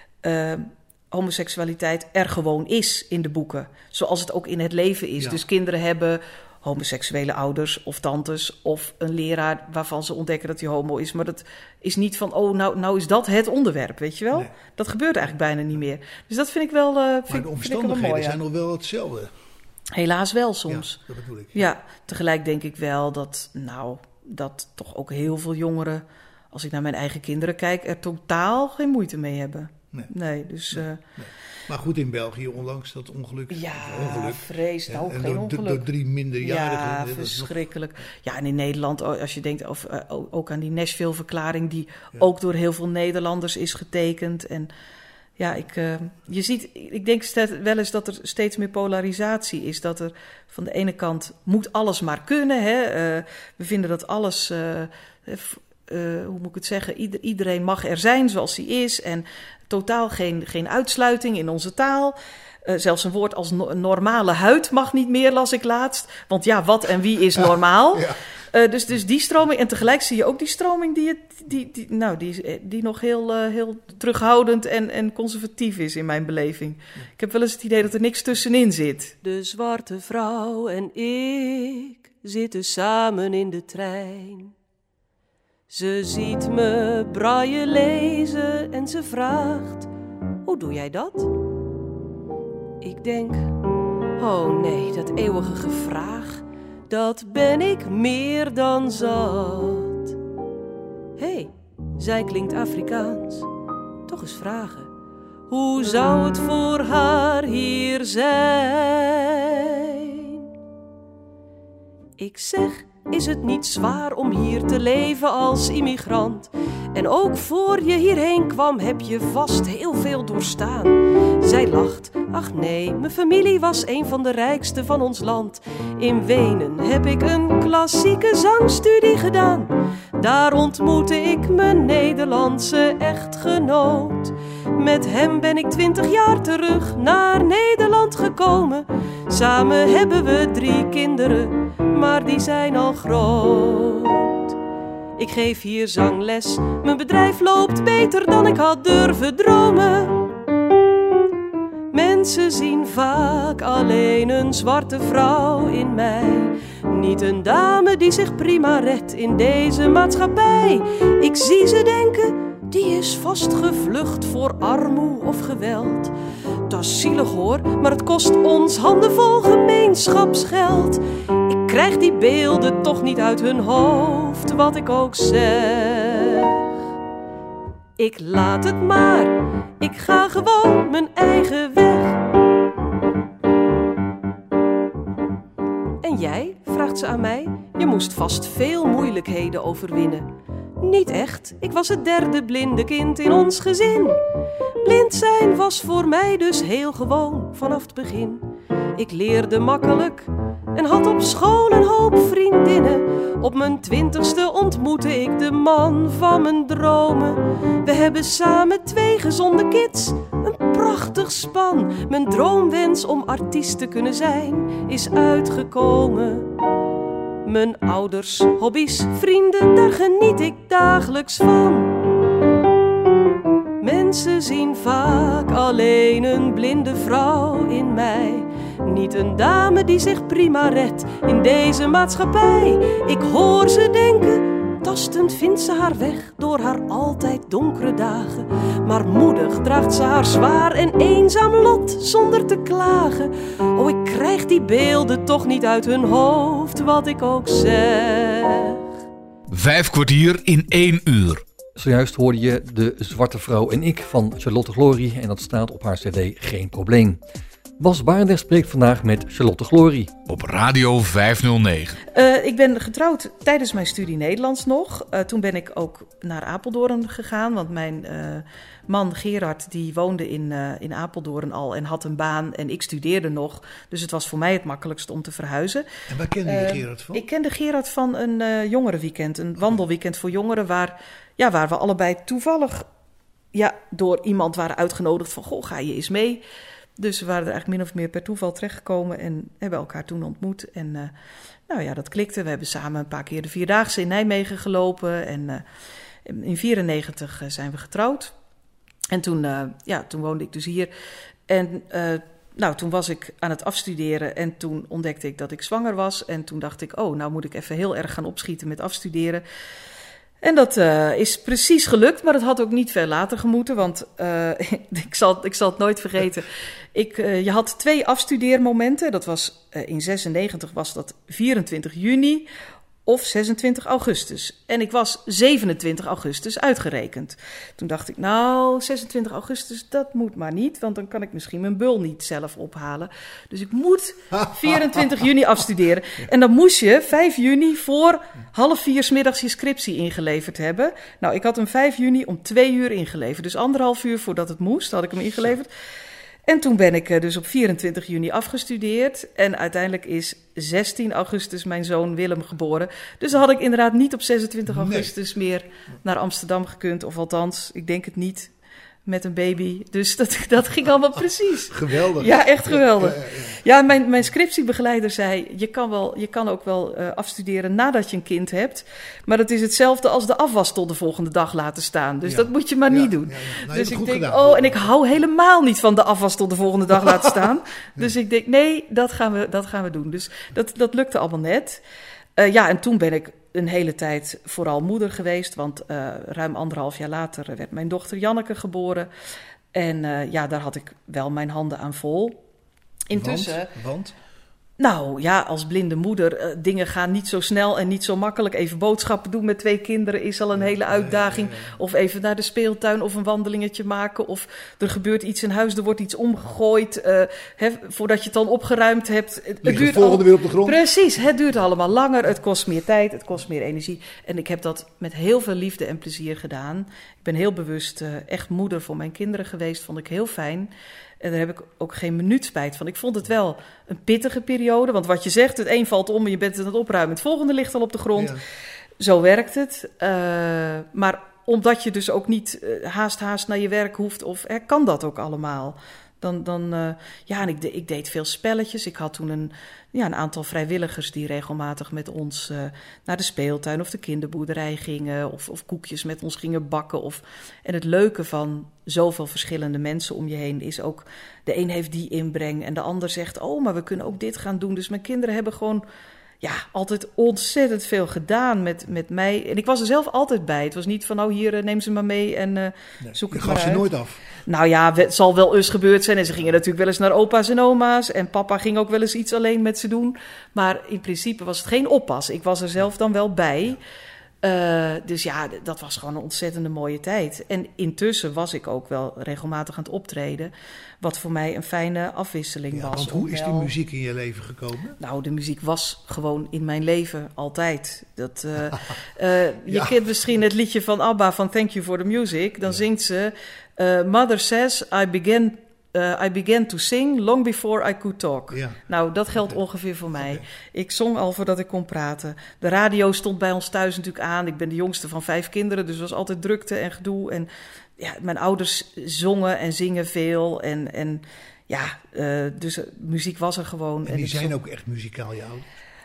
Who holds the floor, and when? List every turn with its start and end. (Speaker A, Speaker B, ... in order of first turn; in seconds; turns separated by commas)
Speaker A: 0.2-18.4, Speaker B: 17.3-19.3, Speaker A: 19.9-21.0, Speaker B: 20.7-21.7, Speaker A: 21.5-31.0, Speaker B: 31.2-37.6, Speaker A: 33.5-35.9, Speaker A: 36.4-44.7, Speaker A: 45.4-79.2, Speaker C: 79.2-84.5, Speaker C: 85.7-89.9, Speaker C: 90.5-91.3, Speaker C: 92.8-93.6, Speaker C: 94.2-100.2, Speaker C: 101.2-103.5, Speaker C: 104.1-104.9, Speaker C: 105.5-110.5, Speaker C: 112.2-144.6, Speaker C: 145.2-150.3, Speaker C: 151.9-166.1, Speaker C: 166.7-176.7, Speaker C: 178.0-182.2, Speaker C: 186.0-194.2, Speaker C: 194.8-198.4, Speaker C: 198.9-216.5, Speaker C: 217.4-222.0, Speaker C: 223.8-248.8, Speaker D: 249.5-251.4, Speaker E: 251.8-257.2, Speaker E: 257.8-260.1, Speaker D: 260.3-262.0, Speaker A: 262.1-275.9, Speaker B: 276.1-277.2, Speaker A: 276.4-282.9, Speaker A: 283.5-286.4, Speaker A: 287.0-291.1, Speaker A: 291.7-295.6, Speaker A: 296.2-298.3, Speaker A: 299.1-300.9, Speaker A: 301.5-309.4, Speaker A: 310.4-322.5, Speaker A: 323.1-345.7, Speaker A: 346.5-358.5, Speaker B: 354.7-355.1, Speaker A: 359.1-381.8, Speaker B: 361.7-363.6, Speaker B: 372.2-374.9, Speaker A: 382.4-389.1, Speaker A: 389.7-392.4, Speaker A: 393.1-393.7, Speaker B: 393.1-394.1, Speaker A: 394.8-428.4, Speaker B: 400.6-401.7, Speaker B: 409.6-410.8, Speaker A: 429.0-455.8, Speaker A: 456.4-463.9, Speaker B: 463.0-464.2, Speaker A: 464.5-473.8, Speaker A: 474.4-483.7, Speaker B: 482.7-485.0, Speaker A: 485.0-514.5, Speaker B: 489.7-490.0, Speaker B: 498.5-498.8, Speaker B: 500.2-500.4, Speaker B: 514.0-515.7